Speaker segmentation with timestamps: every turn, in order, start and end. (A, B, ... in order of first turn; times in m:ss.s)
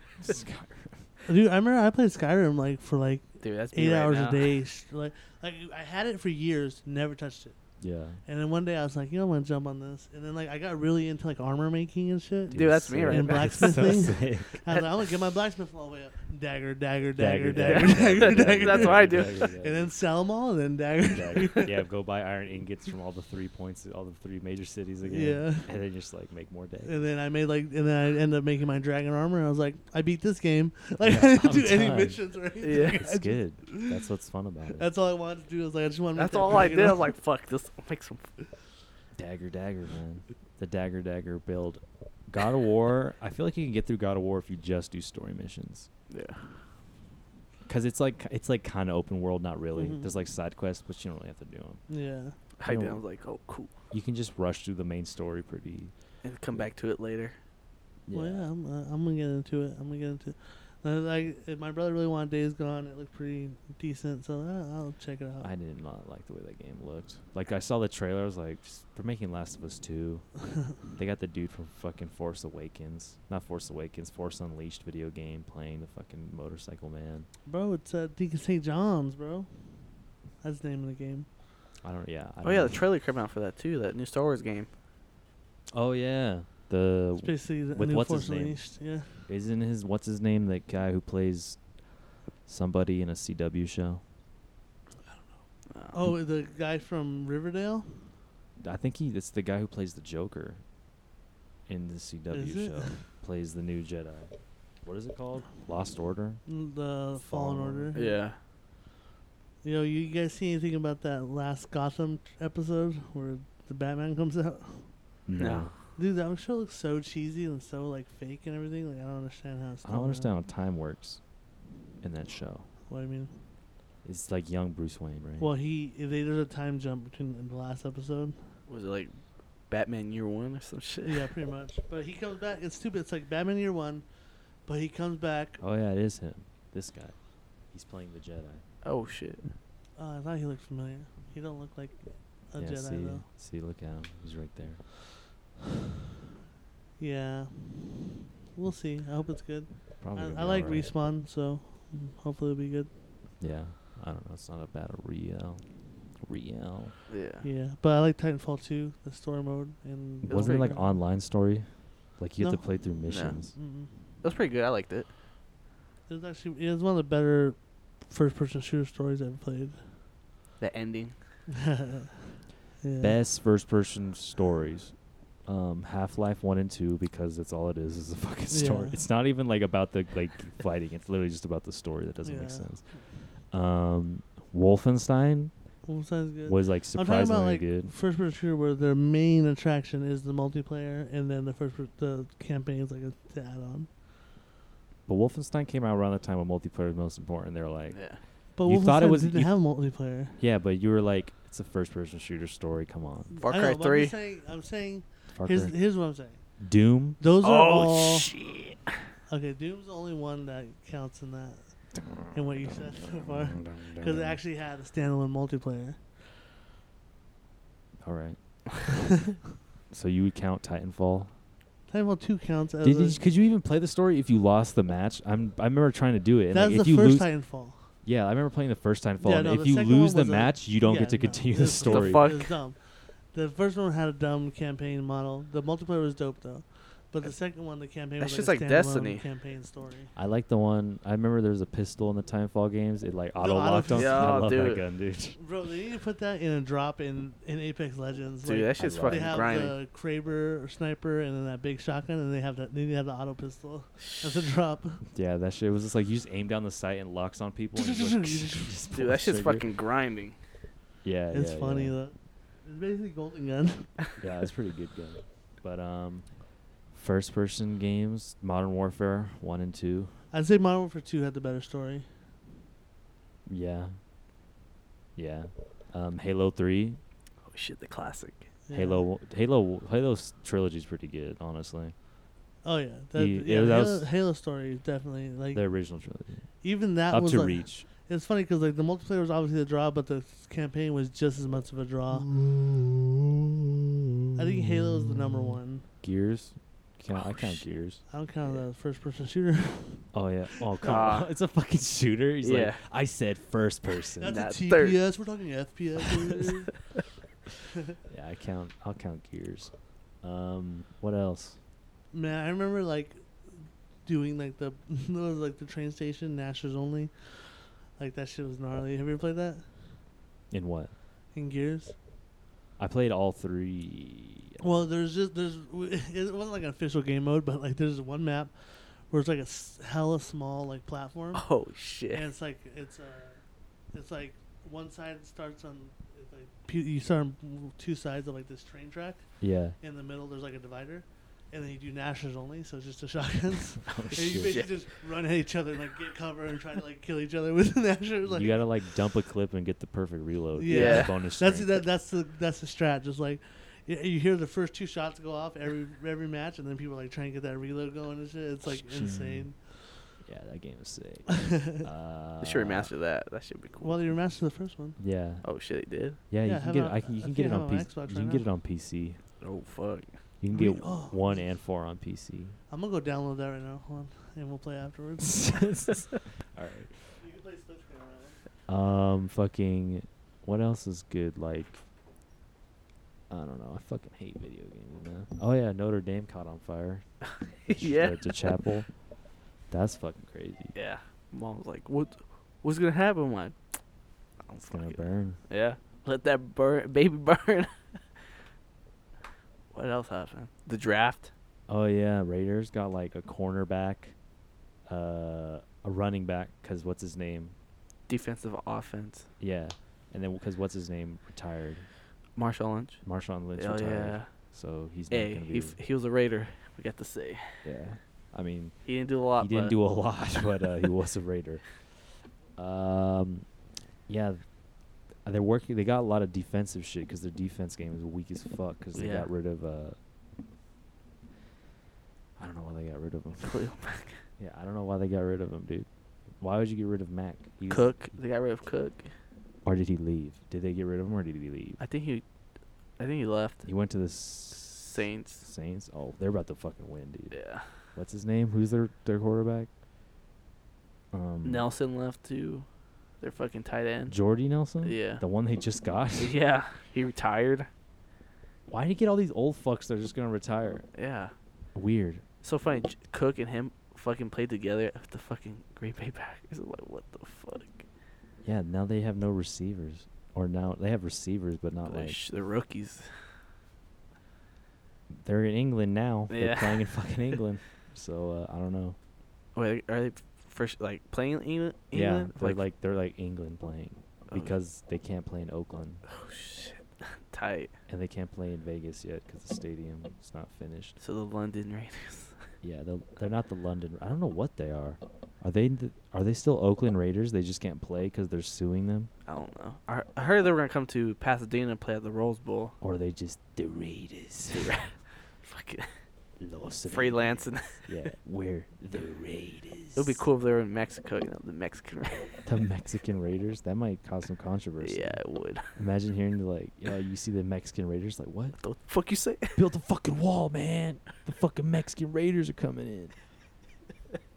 0:00.2-0:01.0 A
0:01.2-0:07.6 B
0:03.4-0:04.5 C
0:07.8-0:08.2 A
0:08.2-0:21.7 B
0:12.5-0:14.6 A
0:12.5-0:14.0 C
0:17.2-0:19.9 A
0:17.6-0:19.5 C
0:21.1-0:27.0 A
0:25.0-0:25.7 B
0:26.8-0:34.0 B
0:31.0-0:32.2 A
0:32.6-0:33.0 C
0:32.9-0:34.9 A
0:34.8-0:37.1 B
0:36.2-0:38.3 C
0:39.2-0:45.9 A
0:46.1-0:46.5 C
0:47.6-0:51.8 A
0:49.7-0:50.1 B
0:51.9-0:52.4 B
0:52.6-0:53.7 C
0:52.6-0:53.0 A
0:53.9-0:55.9 A
0:56.2-0:57.4 C
0:58.1-0:58.4 A
0:58.1-1:05.5 B
1:05.4-1:17.3 A
1:17.4-1:19.5 B
1:20.4-1:21.3 B
1:21.8-1:22.8 A
1:22.4-1:24.7 C
1:25.7-1:31.6 A
1:27.2-1:29.3 B
1:32.4-1:34.0 A
1:35.7-1:36.0 C
1:35.9-1:38.1 B
1:38.6-1:40.6 A
1:41.7-1:46.4 A
1:42.3-1:43.0 B
1:46.4-1:48.2 B
1:47.2-1:47.9 A
1:47.9-1:48.4 C
1:49.6-1:54.9 B
1:55.2-1:55.7 A
1:55.4-1:55.7 C
1:55.9-2:00.3 B
1:59.8-2:01.2 A
2:02.0-2:02.7 A
2:02.9-2:03.3 B
2:04.0-2:05.5 A
2:05.4-2:08.4 B
2:08.7-2:09.2 C
2:09.7-2:11.3 C
2:11.0-2:14.0 B
2:14.6-2:15.6 B
2:15.6-2:17.2 A
2:17.7-2:18.6 A
2:18.8-2:19.4 C
2:20.0-2:23.2 B
2:22.6-2:24.8 A
2:27.0-2:32.9 B
2:30.0-2:30.9 A
2:33.4-2:37.0 A
2:37.1-2:37.4 C
2:37.4-2:41.0 B
2:40.2-2:43.6 A
2:40.3-2:40.7 C
2:42.4-2:44.1 B
2:43.1-2:43.4 C
2:44.2-2:45.1 C
2:46.1-2:49.9 B
2:50.6-2:51.1 C
2:51.5-2:53.2 B
2:53.0-3:05.5 A
2:58.5-2:59.0 B
3:02.2-3:03.0 B
3:05.9-3:13.9 B
3:06.4-3:07.9 A
3:15.1-3:18.0 A
3:17.9-3:18.2 C
3:18.6-3:20.4 B
3:18.6-3:19.5 A
3:20.4-3:23.3 A
3:23.3-3:26.4 B
3:23.4-3:24.1 C
3:25.4-3:25.7 A
3:26.6-3:27.2 A
3:27.2-3:28.4 B
3:27.4-3:29.0 C
3:29.3-3:31.6 B
3:32.0-3:32.3 A
3:32.3-3:36.0 B
3:33.2-3:34.4 A
3:38.0-3:38.4 A
3:39.9-3:41.3 A
3:41.9-3:43.2 B
3:42.8-3:47.4 A
3:46.5-3:47.9 B
3:48.0-3:52.3 A
3:49.2-4:00.1 B
3:51.8-3:52.6 C
3:58.2-3:59.2 C
4:00.1-4:05.4 A
4:03.4-4:04.7 B
4:03.9-4:04.8 C
4:05.4-4:15.0 B
4:08.4-4:09.8 C
4:08.8-4:09.5 A
4:15.1-4:19.7 A
4:17.8-4:18.7 B
4:18.9-4:20.4 C
4:21.0-4:22.0 A
4:21.3-4:24.0 B
4:24.2-4:30.2 A
4:30.3-4:32.1 B
4:33.5-4:34.0 A
4:35.2-4:37.0 A
4:37.4-4:38.5 C
4:38.6-4:39.0 B
4:38.7-4:41.9 A
4:42.6-4:45.6 B
4:43.1-4:44.0 A
4:45.5-4:46.5 A
4:46.6-4:52.3 B
4:47.1-4:47.9 A
4:52.4-4:53.0 A
4:54.4-4:55.9 B
4:56.0-4:58.0 A
4:57.1-4:57.6 C
4:58.1-5:00.1 B
5:00.1-5:04.4 A
5:00.8-5:01.3 C
5:02.4-5:02.8 C
5:04.2-5:06.8 B
5:04.2-5:05.0 C
5:08.1-5:11.6 A
5:12.1-5:13.2 B
5:14.0-5:19.6 B
5:20.5-5:20.9 A
5:21.3-5:21.9 B
5:22.8-5:24.6 A
5:24.6-5:28.5 B
5:29.1-5:31.5 B
5:31.3-5:32.3 C
5:32.1-5:33.4 B
5:33.9-5:39.2 B
5:39.4-5:39.8 A
5:39.8-5:48.7 B
5:43.8-5:44.6 A
5:48.3-5:51.8 A
5:50.6-6:00.0 B
5:50.7-5:51.1 C
5:58.6-5:59.5 A
6:00.2-6:02.9 A
6:01.3-6:01.8 B
6:02.4-6:04.1 C
6:03.8-6:05.0 B
6:05.0-6:05.4 A
6:05.4-6:06.2 C
6:06.3-6:09.2 A
6:06.4-6:08.4 B
6:09.4-6:10.1 C
6:10.4-6:12.6 A
6:10.5-6:11.5 B
6:12.7-6:15.9 B
6:15.2-6:17.0 A
6:17.2-6:18.4 B
6:18.7-6:21.8 A
6:23.3-6:27.1 A
6:27.6-6:28.3 C
6:27.6-6:28.9 A
6:29.7-6:30.7 A
6:30.7-6:33.6 C
6:34.4-6:38.0 C
6:34.7-6:35.4 A
6:39.7-6:41.3 C
6:41.7-6:44.2 A
6:44.9-6:47.5 A
6:48.1-6:49.3 C
6:49.4-6:51.9 A
6:52.4-6:54.3 C
6:53.0-6:55.8 A
6:55.1-6:57.6 C
6:57.6-7:01.8 A
6:58.8-6:59.8 C
7:02.6-7:03.5 A
7:04.1-7:04.5 A
7:05.2-7:10.0 A
7:08.9-7:09.3 C
7:12.4-7:13.6 A
7:13.4-7:14.2 C
7:14.4-7:18.0 A
7:17.7-7:19.1 C
7:19.6-7:21.8 A
7:21.8-7:22.2 C
7:23.0-7:23.6 C
7:23.6-7:29.7 A
7:24.7-7:25.5 C
7:27.3-7:27.7 C
7:31.1-7:31.7 A
7:31.4-7:32.6 C
7:33.2-7:34.2 C
7:34.1-7:36.3 A
7:34.8-7:35.2 C
7:36.2-7:37.7 C
7:38.7-7:40.9 A
7:40.9-7:41.3 C
7:41.8-7:42.2 A
7:42.4-7:47.8 C
7:48.4-7:52.2 A
7:51.8-7:53.3 C
7:55.2-7:59.0 A
7:56.3-7:57.3 C
7:59.5-8:02.6 C
8:01.9-8:06.0 A
8:04.3-8:04.6 C
8:06.1-8:07.7 C
8:07.9-8:11.0 A
8:11.0-8:12.4 C
8:12.6-8:19.1 A
8:19.3-8:22.8 C
8:22.8-8:24.8 A
8:24.5-8:25.9 C
8:26.4-8:30.2 A
8:26.9-8:27.9 C
8:30.0-8:32.5 C
8:32.5-8:38.6 A
8:34.8-8:35.7 C
8:38.6-8:39.6 C
8:39.5-8:43.2 A